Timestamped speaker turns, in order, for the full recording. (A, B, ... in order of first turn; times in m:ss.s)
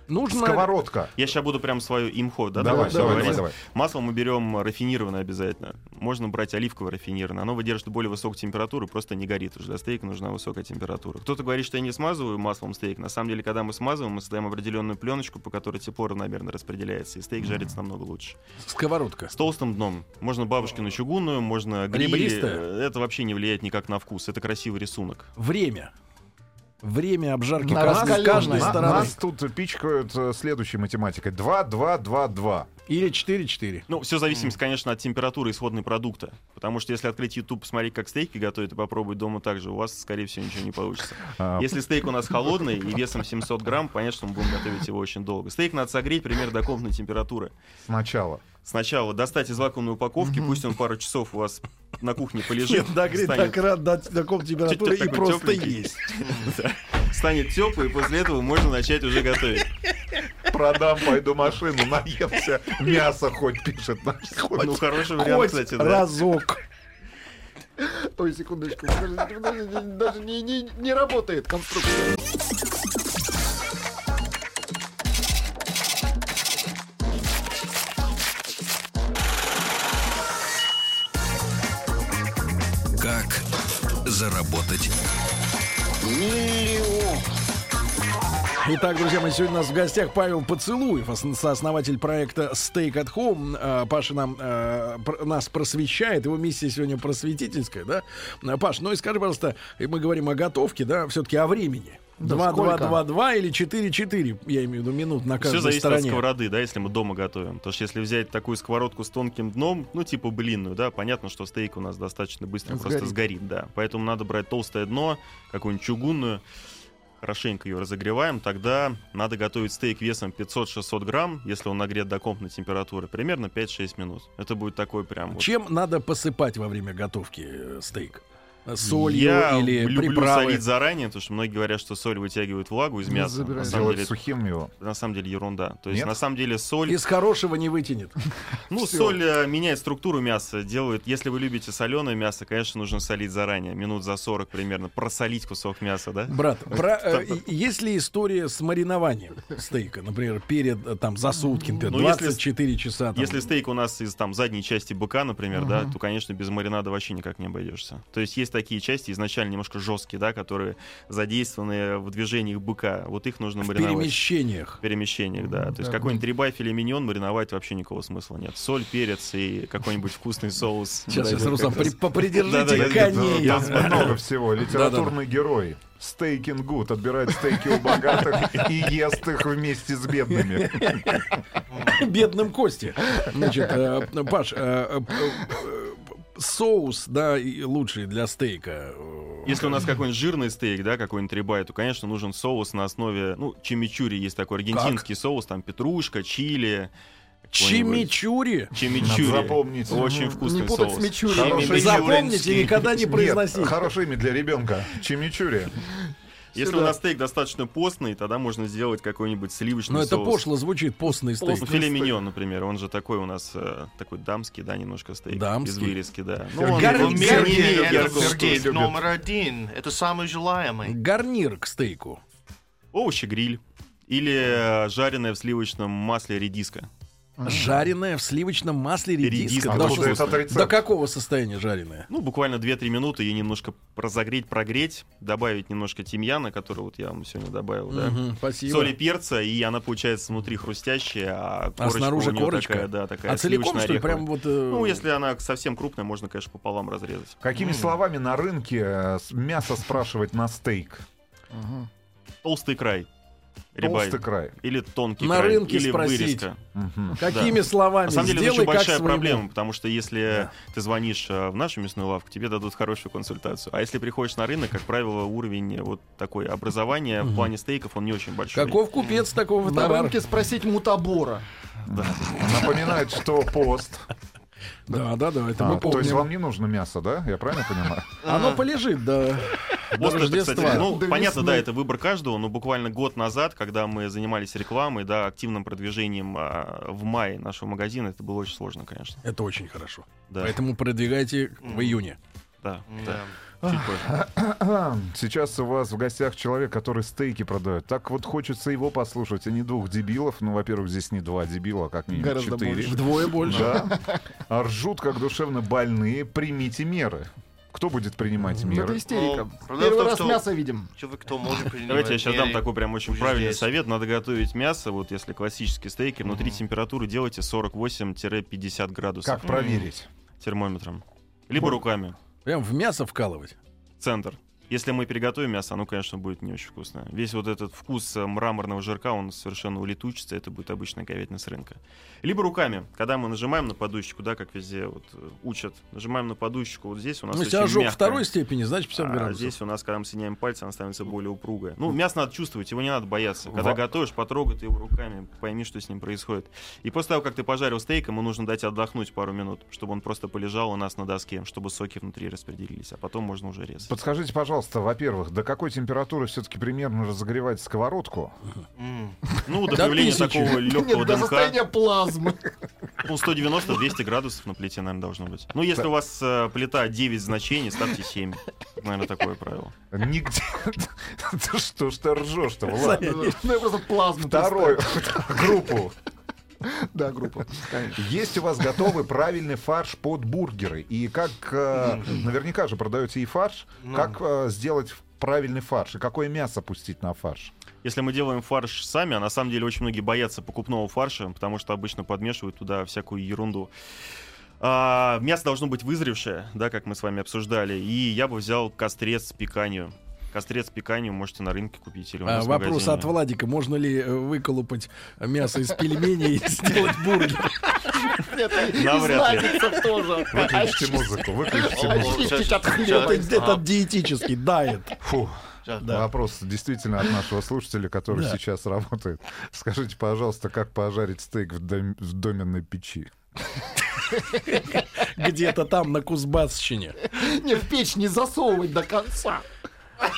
0:00.1-0:00.7 A
0:00.2-0:01.1 B
0:01.2-0:18.4 C
0:02.6-0:03.6 B
0:02.7-0:03.4 A
0:02.9-0:03.2 D
0:18.6-0:19.3 A
0:19.3-0:25.3 C
0:21.9-0:22.6 A
0:25.4-0:25.9 A
0:26.8-0:29.1 A
0:27.6-0:29.1 D
0:27.8-0:32.7 B
0:32.9-0:33.9 A
0:33.9-0:47.5 C
0:34.3-0:34.5 E
0:41.2-0:41.7 B
0:47.8-0:48.4 B
0:48.6-0:53.6 C
0:52.6-0:56.1 A
0:54.6-0:59.7 C
0:56.2-0:56.6 E
1:00.4-1:04.6 B
1:04.4-1:06.6 A
1:04.5-1:06.1 C
1:07.8-1:12.2 D
1:23.0-1:23.4 F
1:24.0-1:24.9 F
1:26.0-1:27.2 F
1:28.6-1:46.2 A
1:42.2-1:43.0 D
1:45.4-1:56.4 C
1:52.7-1:53.1 D
1:57.2-2:05.5 C
2:05.3-2:10.6 A
2:08.8-2:14.1 C
2:13.1-2:13.9 D
2:13.6-2:14.7 B
2:14.8-2:17.0 C
2:15.9-2:16.2 B
2:16.9-2:18.2 A
2:18.7-2:27.4 C
2:18.7-2:19.2 D
2:26.3-2:33.4 A
2:31.8-2:32.4 C
2:33.1-2:44.2 C
2:43.6-2:44.8 A
2:44.8-2:54.2 C
2:45.5-2:46.2 D
2:51.1-2:55.1 A
2:52.7-3:01.2 B
3:00.3-3:09.6 A
3:01.7-3:02.0 E
3:09.4-3:16.9 C
3:14.7-3:15.0 A
3:17.5-3:18.1 C
3:17.6-3:18.7 A
3:18.7-3:22.8 C
3:19.0-3:20.4 B
3:20.4-3:22.1 D
3:21.3-3:25.8 B
3:21.6-3:23.8 A
3:26.5-3:30.4 C
3:26.6-3:26.9 D
3:29.9-3:32.1 A
3:31.4-3:38.7 C
3:35.3-3:36.0 A
3:36.5-3:39.0 B
3:36.7-3:37.6 A
3:36.8-3:41.0 E
3:40.8-3:42.2 A
3:42.9-3:46.9 C
3:47.4-3:47.8 D
3:47.4-3:52.1 A
3:49.2-3:50.4 C
3:49.6-3:50.8 B
3:52.1-4:07.4 C
3:57.9-3:58.9 A
4:01.8-4:05.0 A
4:07.4-4:11.0 B
4:07.5-4:08.0 E
4:11.5-4:11.9 D
4:12.4-4:13.1 C
4:13.7-4:16.6 C
4:13.8-4:14.5 B
4:15.2-4:16.5 A
4:16.7-4:17.2 B
4:17.2-4:19.4 A
4:17.2-4:28.8 C
4:27.2-4:27.5 A
4:28.5-4:30.2 A
4:29.0-4:29.3 E
4:29.6-4:31.4 D
4:31.9-4:34.1 B
4:31.9-4:32.6 C
4:34.9-4:36.3 A
4:35.6-4:38.1 B
4:35.7-4:36.2 D
4:38.2-4:38.6 E
4:38.2-4:40.9 A
4:39.9-4:49.2 C
4:40.6-4:41.6 D
4:49.2-4:52.2 A
4:50.3-4:50.6 C
4:51.6-4:52.0 E
4:52.6-4:54.1 C
4:52.9-4:53.3 E
4:53.6-5:09.0 B
5:02.1-5:04.2 D
5:02.8-5:03.8 A
5:08.7-5:10.9 D
5:09.1-5:13.7 E
5:11.8-5:19.6 C
5:16.2-5:16.6 E
5:19.2-5:20.1 B
5:19.4-5:19.9 E
5:20.4-5:22.2 C
5:22.4-5:23.6 A
5:24.0-5:38.2 C
5:37.3-5:39.5 A
5:38.9-5:53.9 C
5:53.9-5:58.4 B
5:58.8-5:59.2 E
5:59.4-6:01.6 C
5:59.7-6:00.6 A
6:00.6-6:02.6 D
6:03.0-6:09.7 C
6:09.9-6:13.2 B
6:12.8-6:13.4 A
6:12.8-6:15.6 D
6:14.2-6:15.9 B
6:16.7-6:18.1 D
6:17.9-6:27.5 B
6:23.8-6:24.1 E
6:27.8-6:33.7 C
6:34.6-6:43.1 C
6:42.2-6:47.7 A
6:48.1-6:53.6 D
6:48.6-6:49.8 C
6:50.3-6:52.5 B
6:51.7-6:53.6 E
6:52.9-6:55.0 A
6:55.0-7:03.1 B
6:55.6-6:56.0 E
6:58.1-6:58.4 A
7:04.5-7:07.0 A
7:07.1-7:09.4 D